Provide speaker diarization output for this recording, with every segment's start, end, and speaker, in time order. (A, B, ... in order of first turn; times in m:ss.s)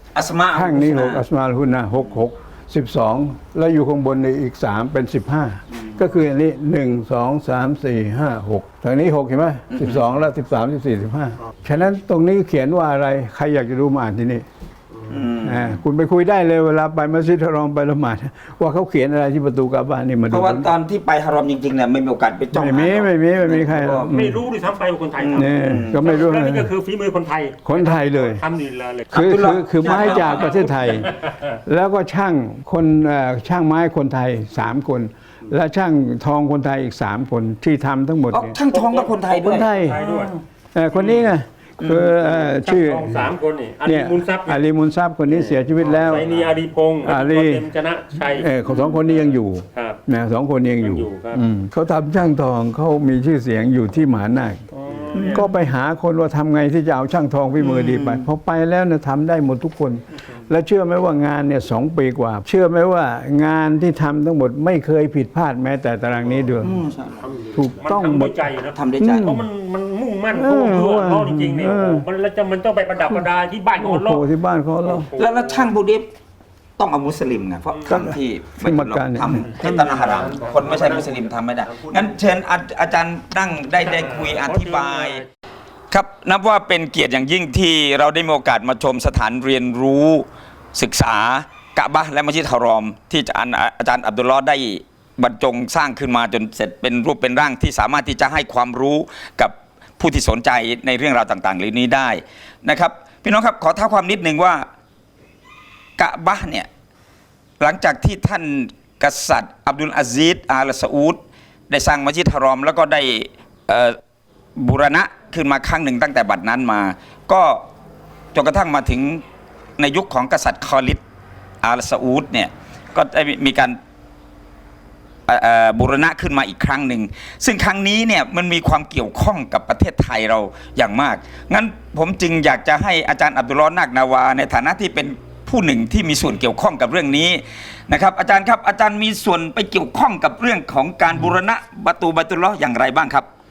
0:00.1-0:01.2 A
0:00.5-0:14.4 B
0:09.7-0:10.0 A
0:15.1-0:15.8 A
0:15.4-0:20.7 B
0:20.3-0:24.1 A
0:22.5-0:24.4 B
0:24.1-0:29.1 C
0:25.2-0:26.0 A
0:25.3-0:26.7 B
0:27.6-0:28.4 B
0:29.1-0:30.5 A
0:29.1-0:31.1 B
0:29.8-0:31.6 C
0:31.6-0:38.6 B
0:38.3-0:40.4 A
0:38.7-0:40.4 C
0:39.4-0:40.0 B
0:40.7-0:43.3 B
0:40.9-0:41.2 C
0:41.8-0:42.1 A
0:42.3-0:44.6 C
0:43.8-0:46.4 B
0:45.3-0:48.5 C
0:47.0-0:54.6 B
0:48.7-0:49.0 A
0:49.7-0:50.0 C
0:50.8-0:51.4 C
0:54.7-0:55.5 C
0:55.1-1:06.7 B
0:57.6-0:58.2 A
1:06.6-1:07.3 A
1:07.2-1:14.2 C
1:07.5-1:08.4 B
1:08.7-1:09.4 A
1:09.0-1:09.4 B
1:10.3-1:12.0 B
1:13.0-1:15.1 B
1:14.8-1:15.7 C
1:15.2-1:16.0 A
1:16.8-1:25.2 A
1:17.7-1:18.0 C
1:17.9-1:19.5 B
1:19.4-1:20.9 C
1:23.8-1:25.2 C
1:25.9-1:44.6 A
1:46.0-1:46.7 A
1:47.6-1:54.0 A
1:54.6-1:57.6 A
1:58.3-1:59.2 A
1:59.8-2:01.0 A
2:01.6-2:03.8 A
2:05.3-2:23.3 A